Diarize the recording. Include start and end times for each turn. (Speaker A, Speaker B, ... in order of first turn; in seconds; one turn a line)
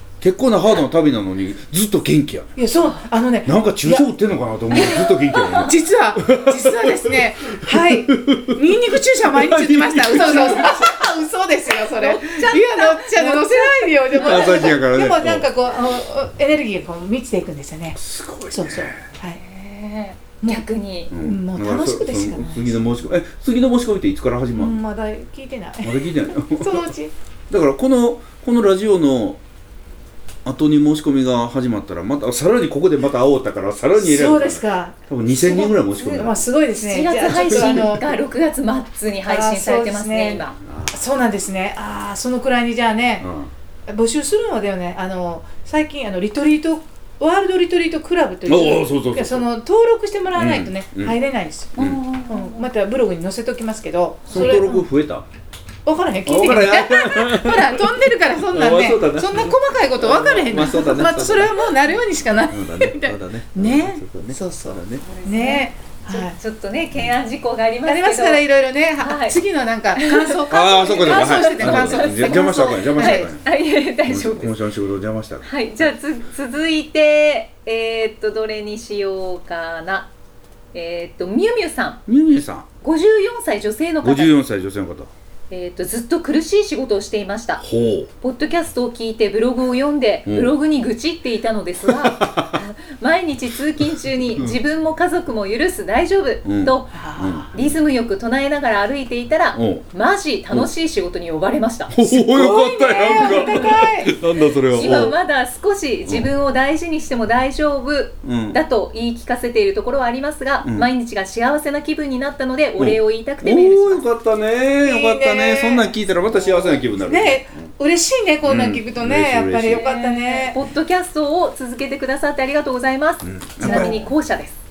Speaker A: 0.2-2.5
Speaker B: 2.6-4.1
Speaker A: 3.4-11.0
Speaker C: 4.7-5.7
Speaker B: 4.8-19.4
Speaker C: 12.0-14.6
Speaker A: 14.1-15.5
Speaker A: 18.0-19.0
Speaker C: 19.3-21.1
Speaker B: 20.4-22.8
Speaker A: 21.1-24.8
Speaker B: 24.6-27.1
Speaker A: 25.8-26.9
Speaker A: 27.5-29.4
Speaker A: 30.4-36.4
Speaker B: 34.0-38.1
Speaker C: 35.9-40.6
Speaker A: 37.5-37.9
Speaker B: 39.2-43.3
Speaker A: 40.6-41.0
Speaker A: 43.2-43.5
Speaker B: 43.9-54.9
Speaker A: 48.5-49.5
Speaker A: 50.3-51.2
Speaker A: 51.8-52.0
Speaker C: 51.8-52.7
Speaker A: 54.3-55.2
Speaker B: 55.9-66.4
Speaker A: 56.2-61.8
Speaker A: 62.5-65.0
Speaker C: 65.0-68.4
Speaker B: 67.8-73.2
Speaker C: 69.0-69.4
Speaker C: 69.9-74.5
Speaker A: 70.5-73.5
Speaker A: 74.0-75.9
Speaker C: 75.4-80.1
Speaker C: 80.7-82.0
Speaker A: 82.0-82.7
Speaker C: 82.8-84.3
Speaker A: 84.0-85.1
Speaker C: 85.5-87.6
Speaker A: 87.6-88.1
Speaker C: 88.2-97.0
Speaker A: 90.2-90.5
Speaker A: 91.8-92.6
Speaker A: 93.9-94.6
Speaker A: 96.4-97.7
Speaker B: 96.9-97.5
Speaker C: 97.5-101.9
Speaker A: 99.5-99.8
Speaker A: 101.9-105.2
Speaker B: 102.0-104.2
Speaker C: 103.1-103.9
Speaker C: 104.7-114.0
Speaker B: 104.8-105.1
Speaker A: 108.2-108.6
Speaker A: 112.8-117.7
Speaker B: 114.8-115.9
Speaker C: 116.3-116.8
Speaker B: 116.8-120.6
Speaker A: 118.4-119.9
Speaker C: 119.7-124.5
Speaker A: 123.2-124.0
Speaker B: 123.6-124.1